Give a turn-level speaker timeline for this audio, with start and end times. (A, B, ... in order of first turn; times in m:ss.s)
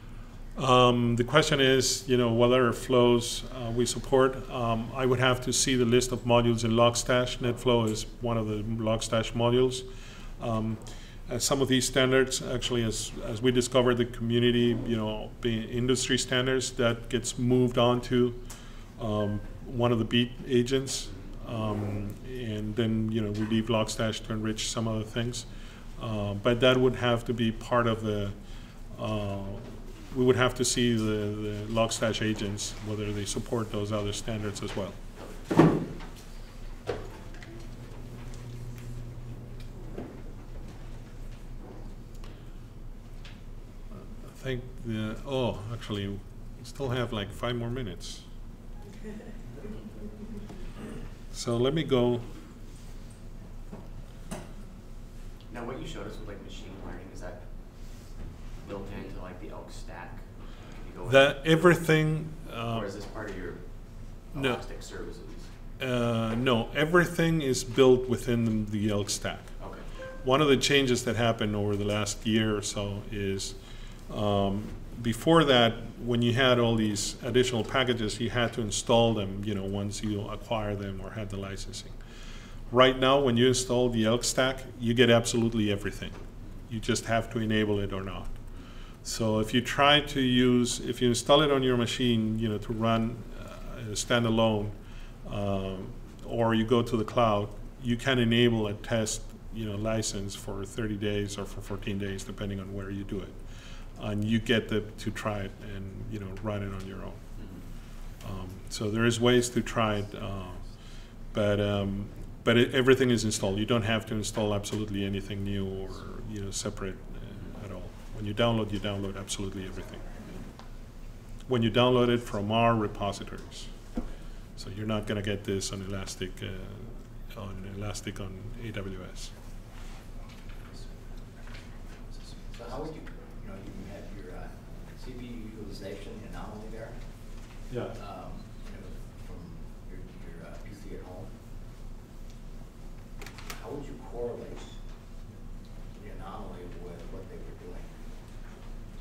0:00.6-0:09.9 A
0:10.4-0:18.4 A
0:19.0-0:25.5 A
0:26.0-0:28.4 A
0:28.9-0:35.0 A
0:44.0-0:48.3 A
0:51.3-0:52.3 A
0:55.5-0:57.4 B
0:58.6-1:01.8 B
1:01.1-1:02.9 A
1:02.7-1:03.6 B
1:04.3-1:05.5 B
1:04.3-1:04.6 A
1:05.8-1:09.5 A
1:09.6-1:09.8 B
1:10.2-1:13.6 A
1:14.1-1:21.9 A
1:22.7-1:28.4 A
1:29.0-1:43.4 A
1:43.9-1:47.3 A
1:47.4-1:47.7 B
1:48.2-2:00.1 A
2:01.5-2:03.7 A
2:04.6-2:09.3 A
2:12.3-2:21.4 C
2:17.7-2:18.0 A
2:23.4-2:24.8 C
2:25.9-2:28.0 C